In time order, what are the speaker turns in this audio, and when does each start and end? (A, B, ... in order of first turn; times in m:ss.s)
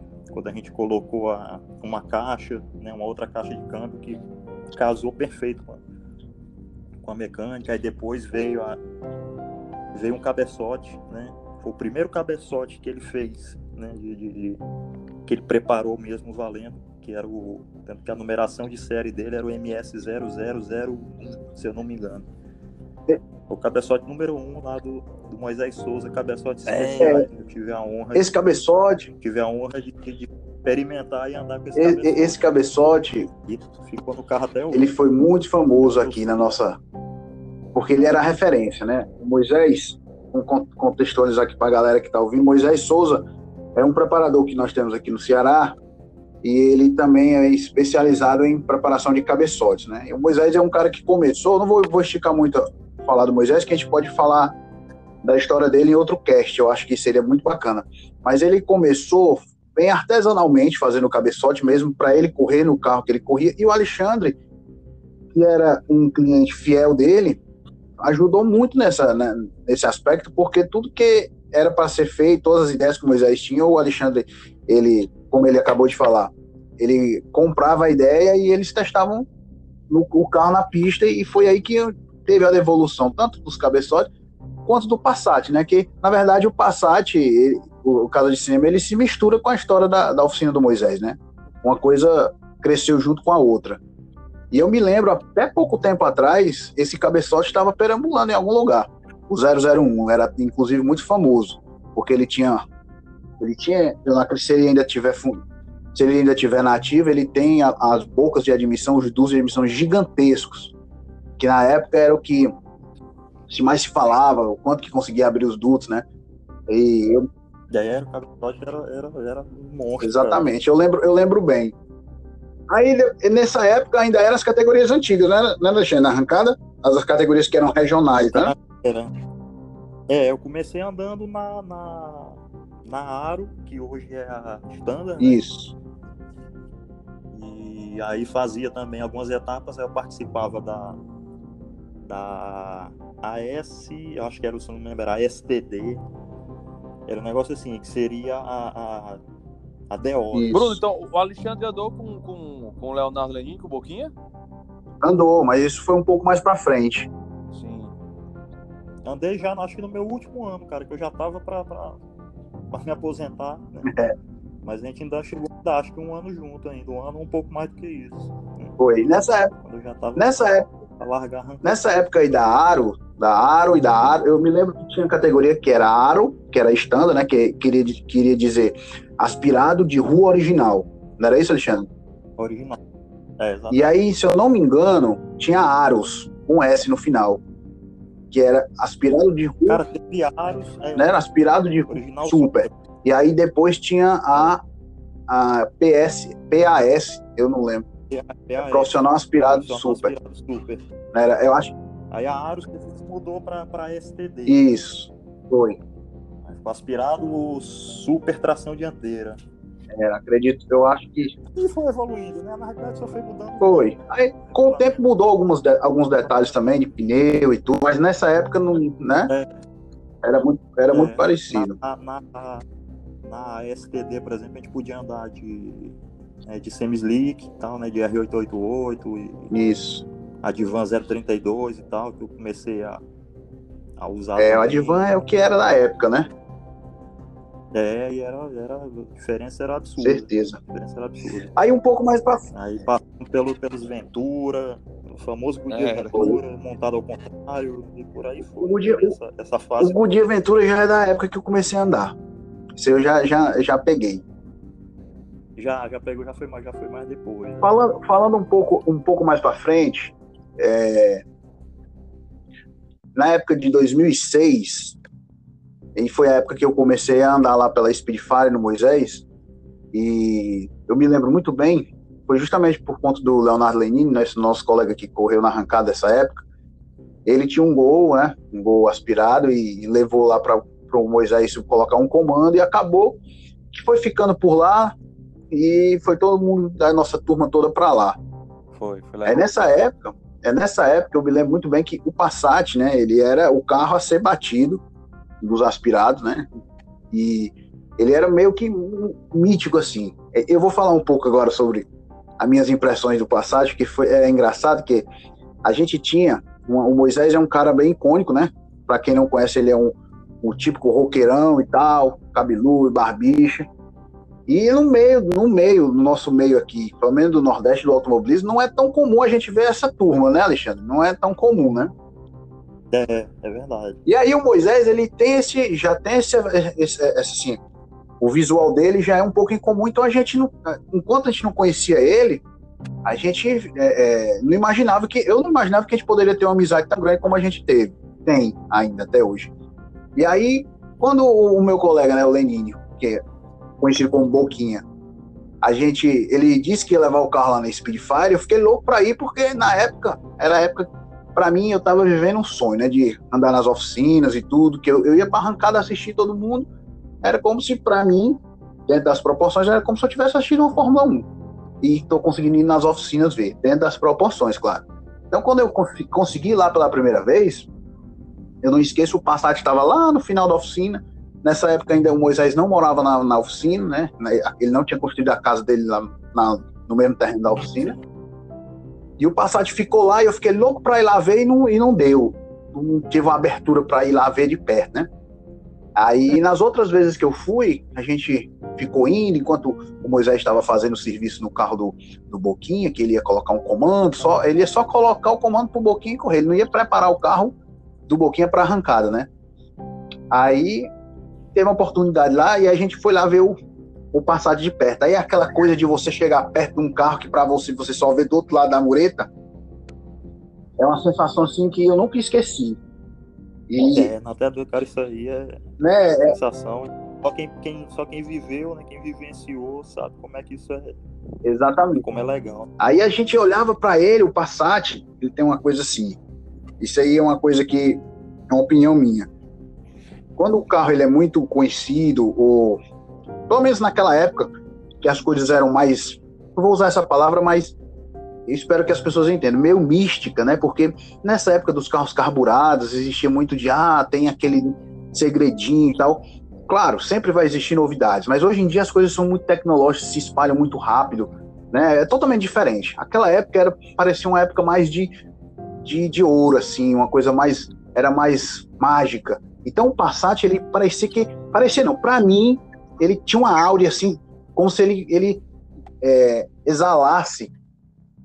0:00.3-0:04.2 A
0:04.8-0:05.8 A
0:07.0-0:08.8 A
0:09.9-0:14.6 A
0:15.2-0:22.3 A
0:23.5-0:28.3 A
0:26.7-0:27.2 B
0:27.0-0:27.3 C
0:28.2-0:29.1 C
0:29.2-0:32.6 A
0:31.8-0:33.3 C
0:33.4-0:34.9 A
0:34.7-0:36.8 C
0:35.8-0:36.5 A
0:37.7-0:43.2 C
0:43.8-0:45.8 C
0:46.4-0:54.5 C
0:55.2-1:04.4 C
1:05.3-1:07.4 C
1:08.0-1:19.3 C
1:19.9-1:24.1 C
1:24.7-1:33.8 C
1:34.5-1:42.6 C
1:43.4-1:45.4 C
1:46.0-1:50.7 C
1:51.4-1:52.5 C
1:53.5-1:56.0 C
1:56.7-1:57.2 C
1:57.7-2:00.5 A
2:00.0-2:01.7 C
2:02.7-2:08.5 C
2:08.2-2:09.1 A
2:10.1-2:15.4 A
2:15.2-2:15.7 C
2:17.3-2:21.0 A
2:22.0-2:26.0 A
2:27.1-2:29.2 A
2:29.9-2:30.6 A
2:30.3-2:30.8 C
2:30.5-2:34.1 B
2:35.0-2:37.1 C
2:37.5-2:37.9 B
2:39.0-2:42.0 A
2:42.7-2:43.9 A
2:43.9-2:44.1 C
2:44.6-2:48.8 A
2:48.8-2:49.5 C
2:49.6-2:50.4 A
2:50.2-2:50.6 C
2:51.0-2:51.8 A
2:51.6-3:01.9 C
3:02.4-3:02.8 A
3:03.4-3:03.9 A
3:03.7-3:07.4 C
3:08.3-3:09.8 C
3:09.7-3:11.2 A
3:11.0-3:14.6 C
3:11.9-3:12.7 A
3:15.3-3:17.8 C
3:18.1-3:20.8 A
3:18.6-3:20.1 C
3:21.1-3:21.7 C
3:22.1-3:24.6 A
3:24.5-3:25.8 C
3:26.4-3:29.4 A
3:29.9-3:31.3 C
3:31.5-3:35.0 A
3:33.6-3:39.3 C
3:40.2-3:41.8 C
3:40.9-3:42.6 A
3:43.2-3:49.5 A
3:49.5-3:50.0 C
3:50.4-3:53.0 A
3:54.0-3:55.1 A
3:54.4-3:56.3 C
3:57.7-4:01.5 A
4:00.0-4:00.6 C
4:01.6-4:02.4 C
4:02.5-4:10.0 A
4:05.7-4:06.1 B
4:06.1-4:06.4 C
4:08.6-4:09.1 C
4:09.8-4:12.2 C
4:12.8-4:14.2 C
4:15.6-4:17.8 A
4:17.6-4:21.2 C
4:23.2-4:25.0 C
4:26.0-4:29.3 C
4:29.9-4:36.4 C
4:37.3-4:43.2 C
4:43.7-4:45.0 C
4:45.5-4:48.2 C
4:48.8-4:49.4 B
4:49.2-4:54.8 C
4:55.4-4:56.5 C
4:57.1-5:01.9 C
5:02.4-5:05.1 C
5:05.6-5:13.7 C
5:14.5-5:21.9 C
5:22.9-5:24.0 A
5:24.1-5:27.6 C
5:28.2-5:32.4 C
5:33.0-5:39.5 C
5:40.2-5:43.2 C
5:43.8-5:44.8 C
5:45.6-5:56.7 C
5:57.2-6:01.3 C
6:01.8-6:07.7 C
6:08.6-6:18.0 C
6:19.2-6:25.1 C
6:26.0-6:37.6 C
6:38.1-6:39.3 C
6:40.3-6:40.9 C
6:41.5-6:43.6 C
6:44.1-6:49.3 C
6:50.8-6:52.8 C
6:53.7-6:54.1 C
6:53.8-6:55.6 A
6:55.8-6:56.4 C
6:56.3-7:01.0 A
7:01.4-7:02.0 C
7:02.0-7:02.7 A
7:02.8-7:06.2 C
7:06.8-7:09.3 C
7:10.4-7:12.8 C
7:13.5-7:17.8 C
7:18.5-7:35.1 C
7:35.8-7:45.4 C
7:46.0-7:47.5 C